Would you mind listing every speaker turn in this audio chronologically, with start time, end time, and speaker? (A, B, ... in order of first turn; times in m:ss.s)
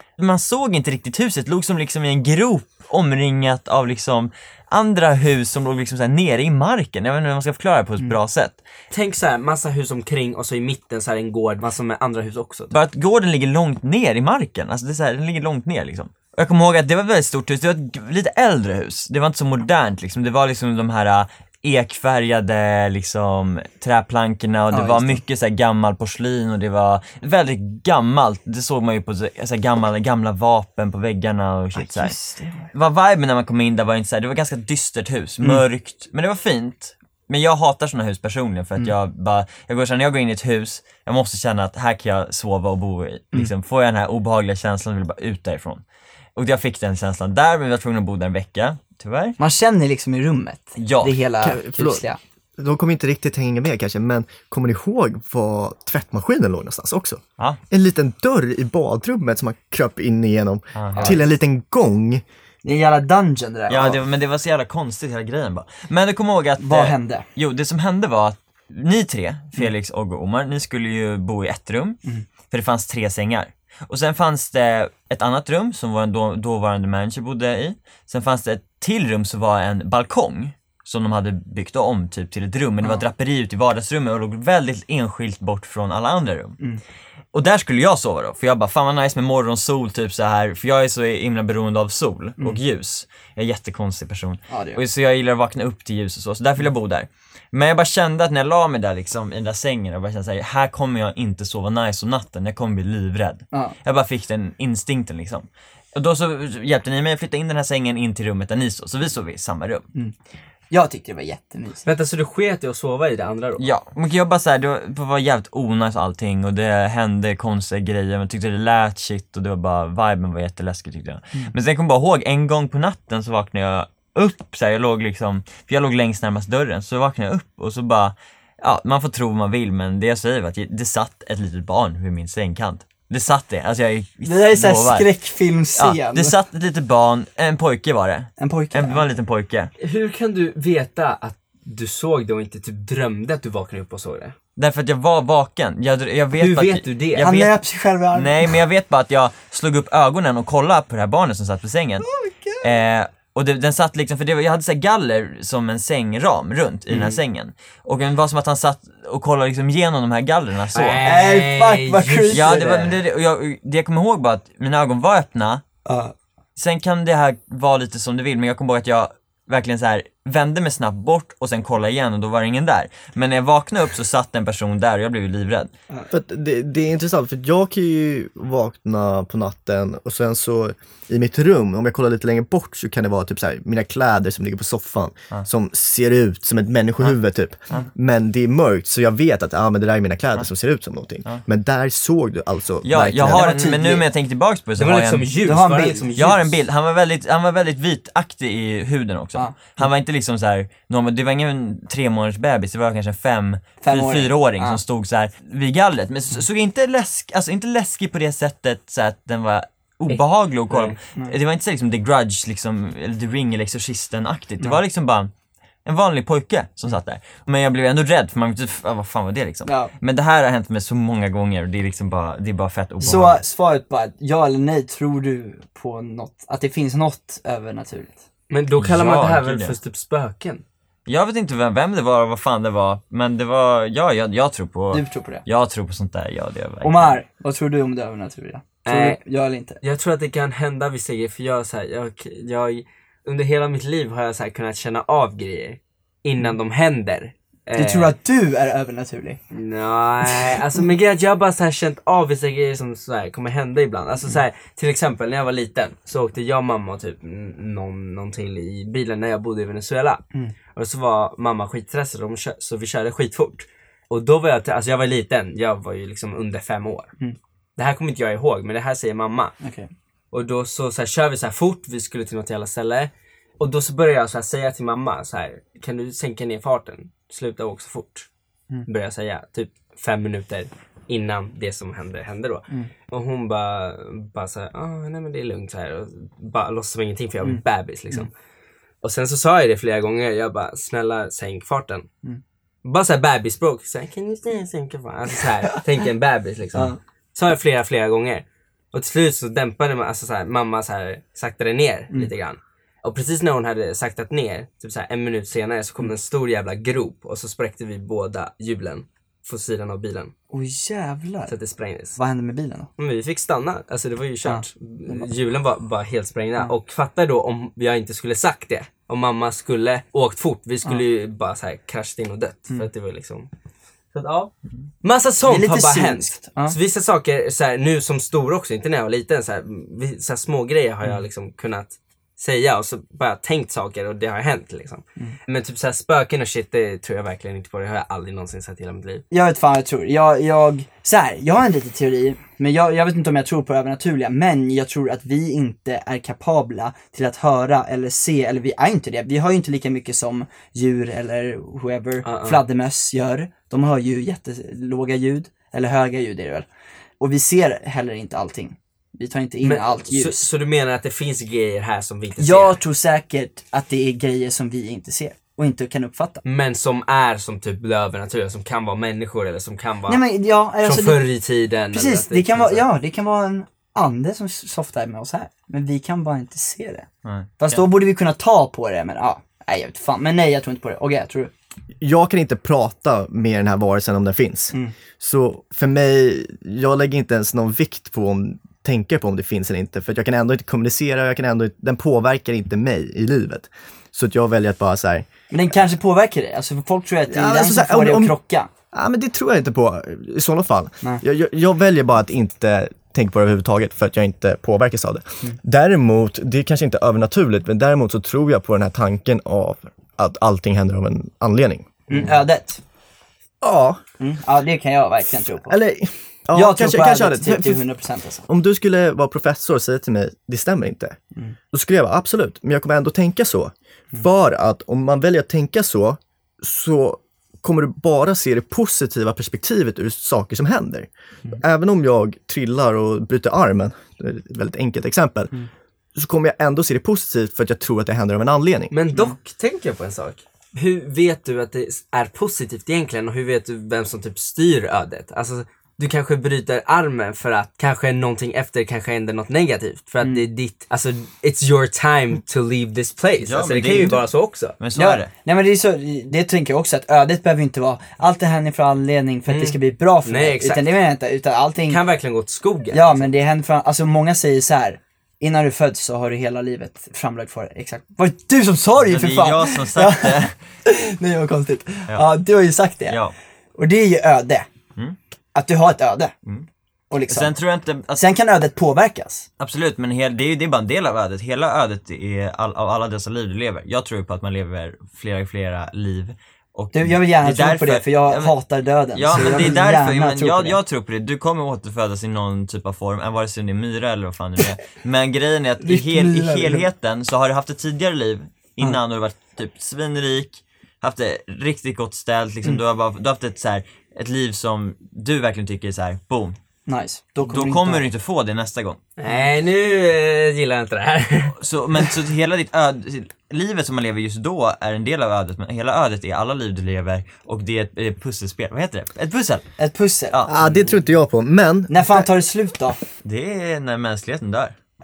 0:00.2-0:08.6 A
0:08.9-0:12.7 B
0:12.7-0:32.1 A
0:24.7-0:25.2 C
0:31.7-0:32.7 C
0:32.7-0:45.8 A
0:46.4-0:49.4 A
0:49.4-0:52.2 C
0:50.8-0:51.2 A
0:51.4-0:52.0 D
0:52.6-1:02.2 D
1:00.7-1:01.2 A
1:01.0-1:01.2 C
1:02.6-1:04.0 C
1:03.7-1:26.6 A
1:06.6-1:07.2 C
1:27.3-1:49.8 A
1:34.5-1:34.8 C
1:50.7-1:51.8 C
1:51.8-1:53.7 B
1:53.6-2:15.1 A
2:14.2-2:16.3 C
2:15.8-2:19.7 A
2:18.4-2:19.0 C
2:19.8-2:24.3 B
2:24.6-2:27.5 A
2:26.4-2:27.3 B
2:27.2-2:28.5 C
2:28.1-2:32.1 A
2:32.0-2:32.8 C
2:32.6-2:41.0 A
2:36.9-2:37.2 C
2:40.7-2:42.8 B
2:41.0-2:42.9 C
2:42.3-2:45.6 A
2:45.8-2:46.1 C
2:46.6-2:55.7 A
2:56.1-3:13.6 D
3:12.8-3:15.3 A
3:13.2-3:14.0 C
3:14.8-3:16.6 B
3:15.4-3:16.0 C
3:16.2-3:35.3 A
3:19.3-3:19.8 C
3:23.8-3:24.8 C
3:30.1-3:31.0 B
3:35.8-3:43.4 A
3:39.6-3:39.9 C
3:43.0-3:48.2 C
3:48.5-3:50.6 B
3:48.8-3:49.7 A
3:51.0-3:57.2 A
3:54.9-3:55.4 C
3:56.8-3:59.8 C
3:58.8-3:59.2 B
3:59.8-4:08.1 B
4:07.8-4:09.4 C
4:09.5-4:27.1 B
4:27.8-4:29.6 B
4:29.6-4:29.9 C
4:30.3-4:38.3 B
4:38.9-4:48.3 B
4:47.4-4:48.3 C
4:49.0-4:52.1 B
4:52.8-5:10.3 B
5:10.5-5:11.5 C
5:11.5-5:12.2 B
5:12.2-5:12.9 C
5:13.0-5:23.5 B
5:14.4-5:15.3 C
5:24.1-5:24.5 B
5:25.0-5:39.2 B
5:25.4-5:26.8 C
5:39.3-5:56.6 C
5:52.2-5:52.6 B
5:57.2-6:00.4 C
5:59.6-6:02.8 B
6:02.4-6:06.4 C
6:06.4-6:10.2 B
6:10.1-6:11.2 C
6:10.8-6:12.8 B
6:11.9-6:17.1 C
6:17.2-6:17.8 A
6:17.6-6:21.5 C
6:22.0-6:35.3 D
6:35.5-6:38.7 C
6:37.3-6:38.4 D
6:38.9-6:52.1 D
6:52.1-6:52.8 C
6:53.6-6:54.0 D
6:54.2-6:55.8 C
6:55.7-6:57.8 D
6:56.5-6:58.4 C
6:58.4-7:01.2 D
7:01.7-7:15.5 D
7:16.1-7:18.9 D
7:18.9-7:34.8 B
7:33.4-7:34.2 A
7:34.8-7:35.3 A
7:34.9-7:42.0 C
7:39.5-7:41.0 B
7:41.9-7:43.3 B
7:42.9-7:53.2 C
7:49.0-7:50.5 A
7:53.1-7:53.3 A
7:53.8-7:54.6 C
7:55.5-7:56.3 C
7:57.1-7:57.5 C
7:57.2-7:58.2 A
7:58.1-7:59.5 C
7:59.6-8:08.5 A
8:06.9-8:10.8 C
8:09.1-8:26.6 A
8:15.8-8:16.9 C
8:26.9-8:28.1 C
8:27.4-8:29.0 A
8:29.2-8:31.5 B
8:31.6-8:39.7 A
8:39.8-8:40.3 C
8:40.3-8:40.8 A
8:40.5-8:42.3 D
8:41.9-8:43.0 C
8:43.2-8:44.8 A